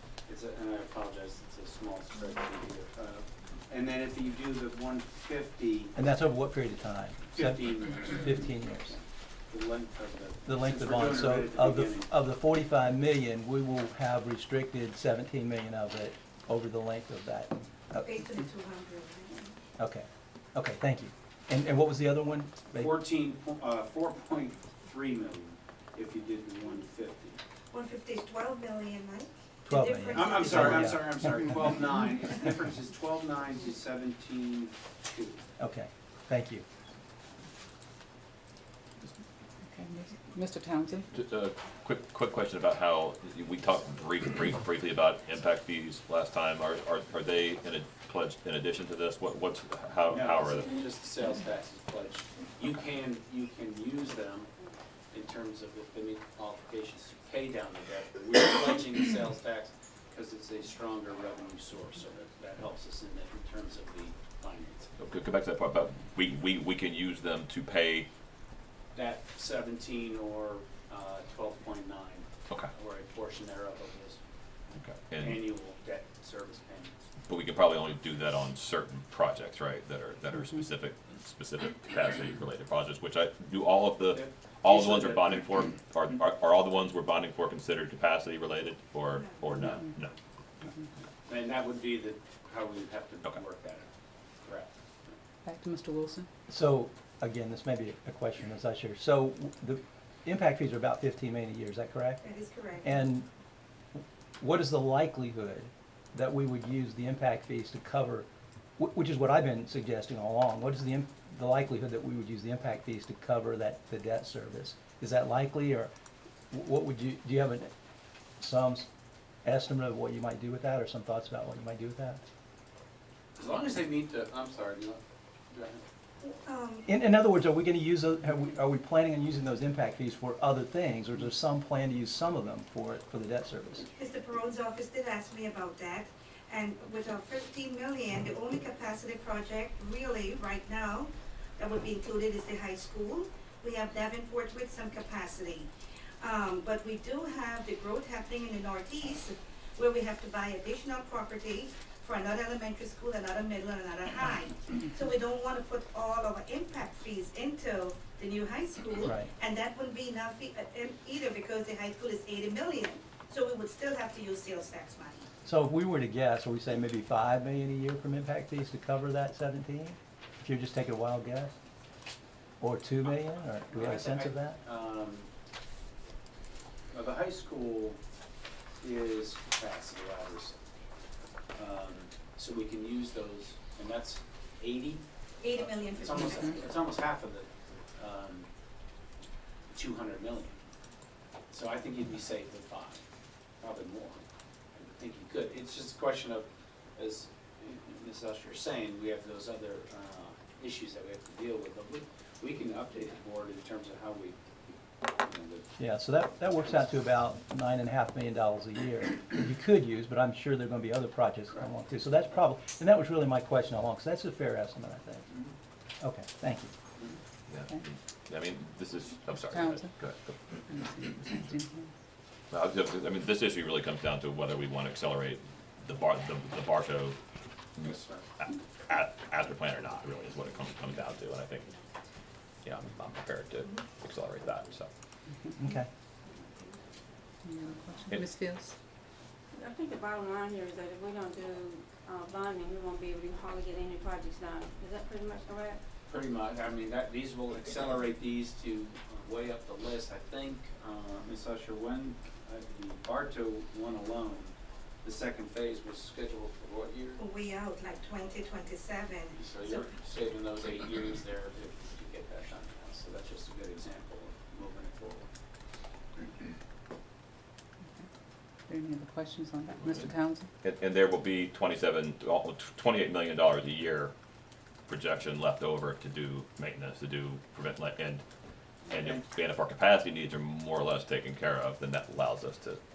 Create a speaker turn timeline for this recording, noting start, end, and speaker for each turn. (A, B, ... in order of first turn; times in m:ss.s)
0:00.3-0:05.9 A
0:05.9-0:09.0 B
0:07.3-0:08.4 A
0:08.9-0:12.1 A
0:10.4-0:18.1 B
0:17.9-0:19.6 C
0:19.8-0:22.9 B
0:22.7-0:27.4 A
0:27.7-0:31.0 C
0:29.6-0:31.2 B
0:30.1-0:35.4 A
0:35.6-0:36.6 B
0:39.6-0:41.1 D
0:41.1-0:50.8 E
0:50.1-0:54.5 A
0:55.1-1:04.9 A
1:05.0-1:08.1 E
1:08.9-1:14.2 A
1:14.7-1:15.4 E
1:15.2-1:17.0 A
1:17.3-1:30.1 E
1:24.1-1:25.4 A
1:29.1-1:29.5 C
1:31.2-1:33.9 A
1:35.4-1:36.3 D
1:36.5-1:42.3 B
1:42.2-1:42.9 C
1:42.8-1:43.3 B
1:44.4-1:48.3 B
1:48.8-1:55.9 B
1:56.5-1:57.7 B
1:58.4-1:58.9 B
1:59.4-2:02.2 B
2:03.4-2:05.8 A
2:06.2-2:06.9 C
2:06.8-2:13.9 B
2:13.9-2:25.7 C
2:26.2-2:45.3 C
2:39.0-2:39.3 B
2:45.4-2:51.5 B
2:52.6-2:54.6 B
2:53.7-2:55.3 A
2:56.9-2:58.0 A
2:58.8-3:00.5 A
3:01.5-3:05.0 A
3:05.4-3:06.8 C
3:05.5-3:08.5 A
3:09.7-3:10.6 A
3:11.5-3:13.0 A
3:13.6-3:14.2 A
3:14.7-3:24.4 A
3:25.0-3:25.7 A
3:25.8-3:35.3 B
3:36.0-3:36.7 B
3:37.5-3:40.3 E
3:39.4-3:39.9 D
3:40.7-3:41.9 D
3:42.5-3:47.2 E
3:47.8-3:48.3 A
3:48.4-3:51.7 E
3:52.6-3:54.9 E
3:55.6-3:55.9 B
3:57.4-3:58.7 D
3:59.5-4:05.8 F
4:06.1-4:17.2 A
4:17.2-4:19.8 C
4:19.3-4:25.3 A
4:28.7-4:30.5 D
4:30.6-4:34.1 E
4:34.9-4:38.2 E
4:38.9-4:42.8 E